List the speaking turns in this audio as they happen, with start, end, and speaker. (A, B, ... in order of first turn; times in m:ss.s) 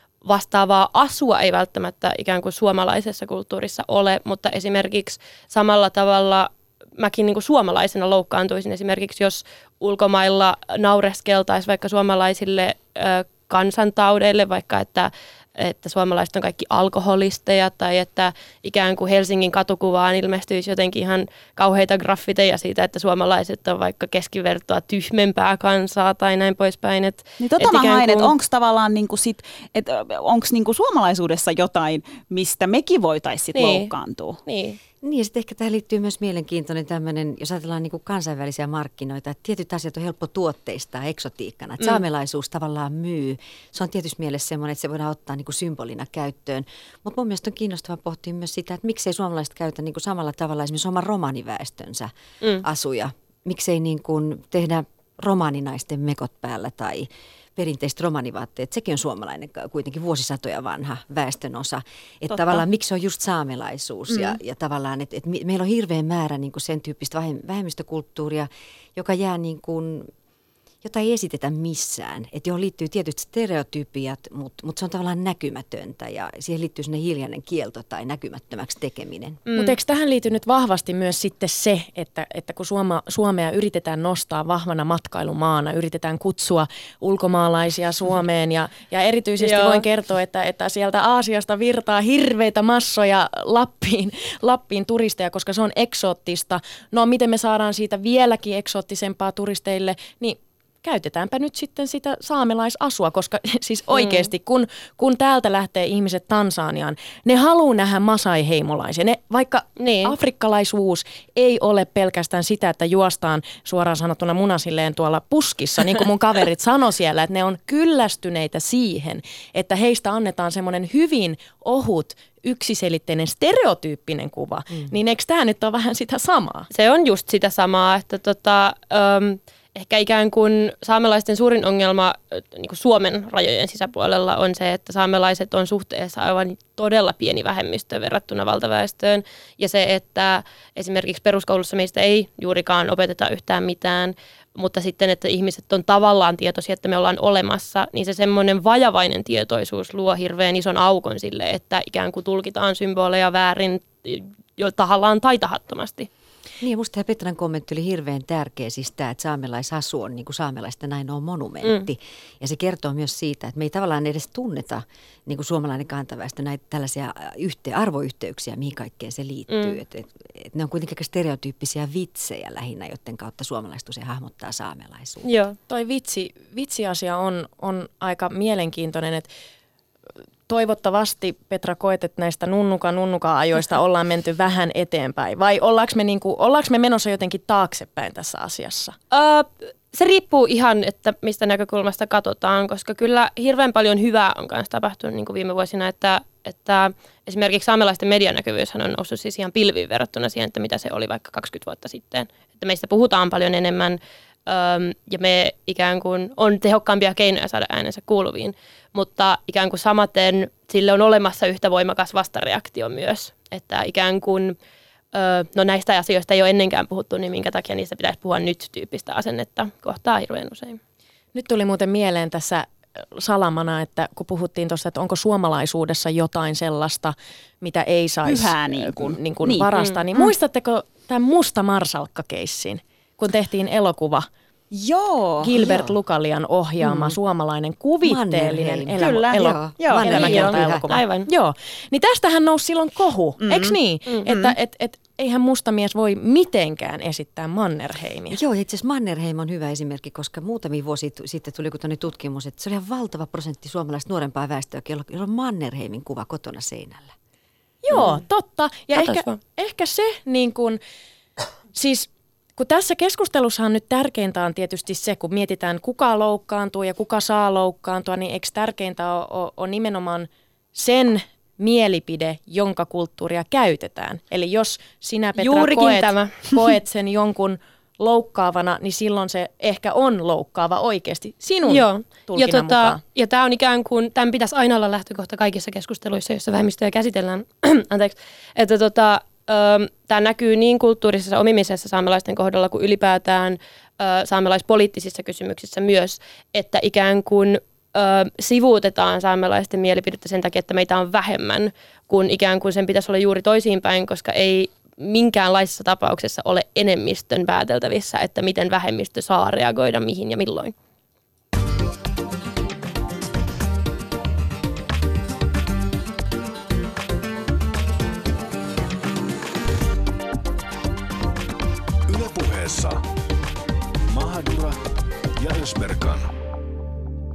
0:00.2-0:28.3 A
0:27.4-0:34.4 B
0:33.5-0:33.9 A
0:34.5-0:34.8 A
0:35.0-1:10.1 C
1:02.3-1:02.6 B
1:10.8-1:19.4 C
1:19.5-1:19.8 A
1:19.6-2:06.7 D
1:29.4-1:29.8 A
1:43.9-1:44.3 A
1:49.8-1:50.2 A
2:06.7-2:36.1 A
2:36.6-2:55.3 C
2:49.5-2:49.8 A
2:55.2-2:55.6 A
2:55.7-2:59.3 D
3:00.5-3:09.0 D
3:09.1-3:34.6 A
3:35.1-3:40.8 A
3:41.3-3:54.3 D
3:48.2-3:50.3 B
3:54.7-3:55.5 B
3:55.4-4:08.4 D
3:55.6-3:55.9 C
3:56.8-3:57.2 C
3:58.0-4:00.9 C
3:59.0-4:00.4 B
4:00.1-4:01.3 A
4:03.4-4:03.8 B
4:04.3-4:04.5 B
4:08.3-4:17.1 C
4:17.8-4:20.8 D
4:19.0-4:19.4 A
4:21.7-4:43.0 D
4:35.4-4:36.6 A
4:41.7-5:10.7 A
5:22.1-5:23.0 E
5:24.1-5:26.3 E